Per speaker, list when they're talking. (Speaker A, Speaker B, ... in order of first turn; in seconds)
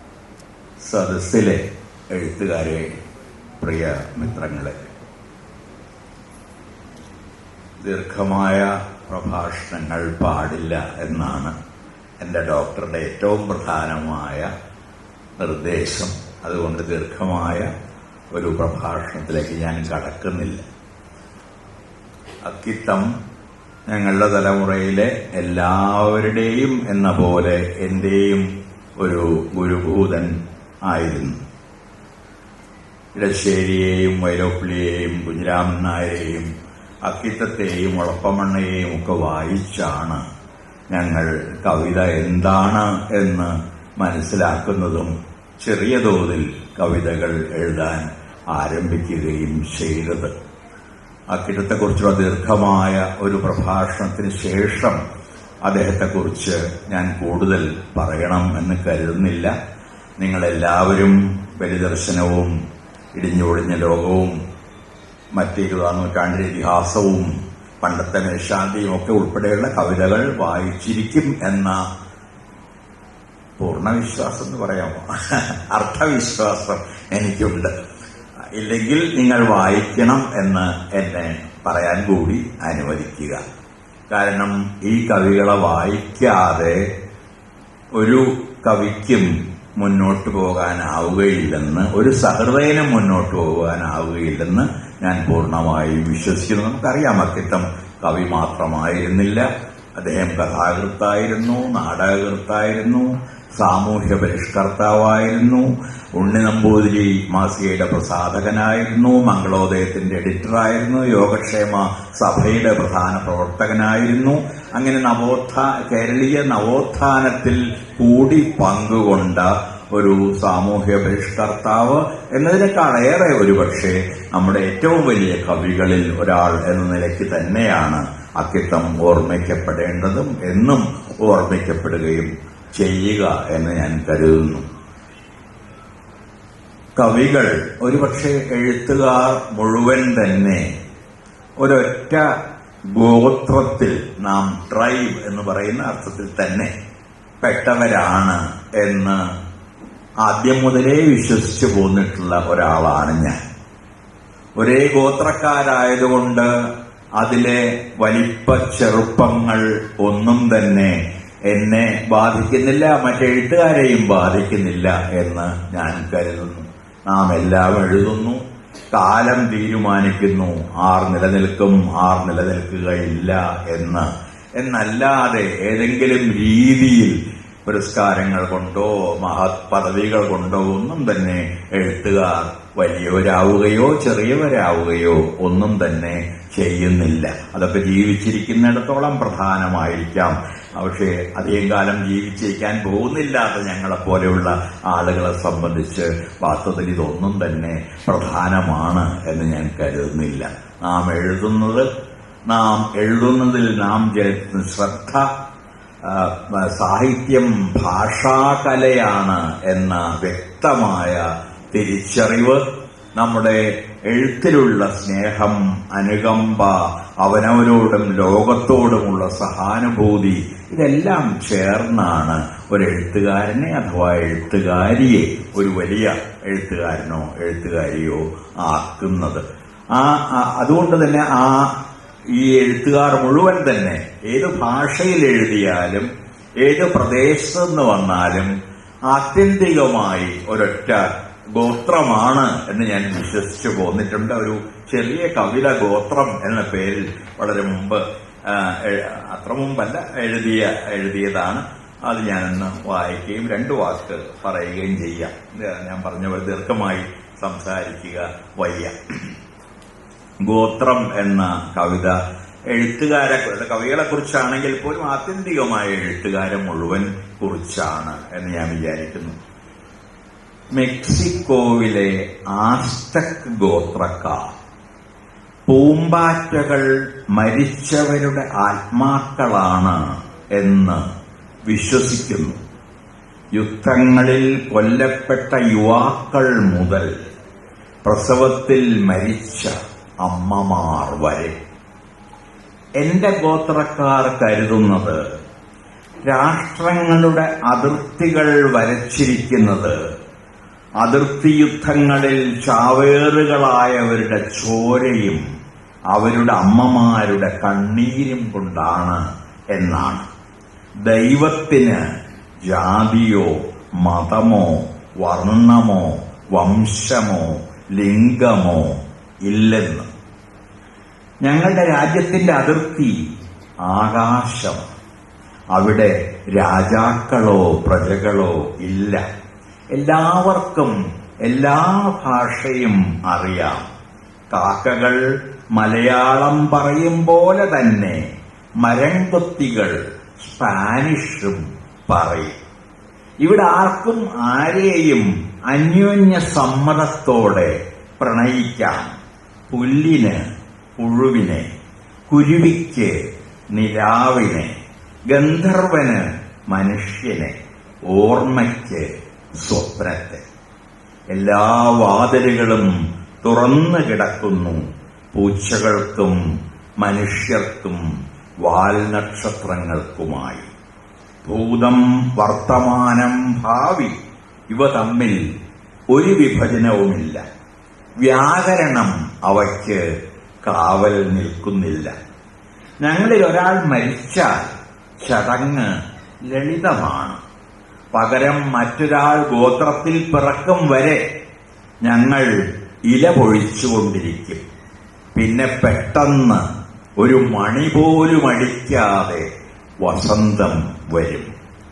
Speaker A: 0.8-3.0, 3.6-4.9, 7.8-11.6, 12.2-14.5, 15.4-17.7, 18.3-20.6, 22.4-23.1, 23.9-28.5, 29.0-30.3, 30.9-31.4, 33.2-36.5, 37.1-40.3, 40.9-50.3, 51.3-55.0, 55.7-59.5, 60.2-62.5, 63.1-64.4, 65.3-71.8, 73.6-77.7, 78.5-83.4, 84.1-86.8, 88.0-99.5, 100.0-134.7, 137.0-140.7, 141.6-146.7, 147.4-149.2, 150.2-153.4, 154.6-156.5, 157.2-161.0, 161.5-168.4, 168.9-201.9, 202.5-205.3, 206.0-212.6, 213.2-231.8, 232.3-236.1, 236.6-238.5, 239.1-259.3, 260.4-262.2, 262.7-269.4, 270.7-274.5, 275.7-281.1, 281.7-282.6, 283.5-287.1, 288.1-291.6, 293.0-295.2, 296.3-300.0, 301.0-305.4, 306.1-310.3, 311.0-312.0, 312.7-320.1, 321.4-323.3, 323.9-324.9, 325.7-329.3, 329.9-333.9, 334.5-335.2, 335.7-338.3, 338.8-342.6, 343.4-349.2, 349.7-351.7, 352.3-354.7, 355.3-357.6, 358.1-360.5, 361.3-362.9, 363.4-366.4, 367.0-368.0, 368.6-370.7, 371.4-374.2, 374.7-375.4, 376.1-377.4, 378.2-380.0, 380.6-382.1, 383.0-387.4, 388.1-391.2, 392.0-392.5, 393.1-394.6, 395.4-396.6, 397.2-399.5, 400.0-401.5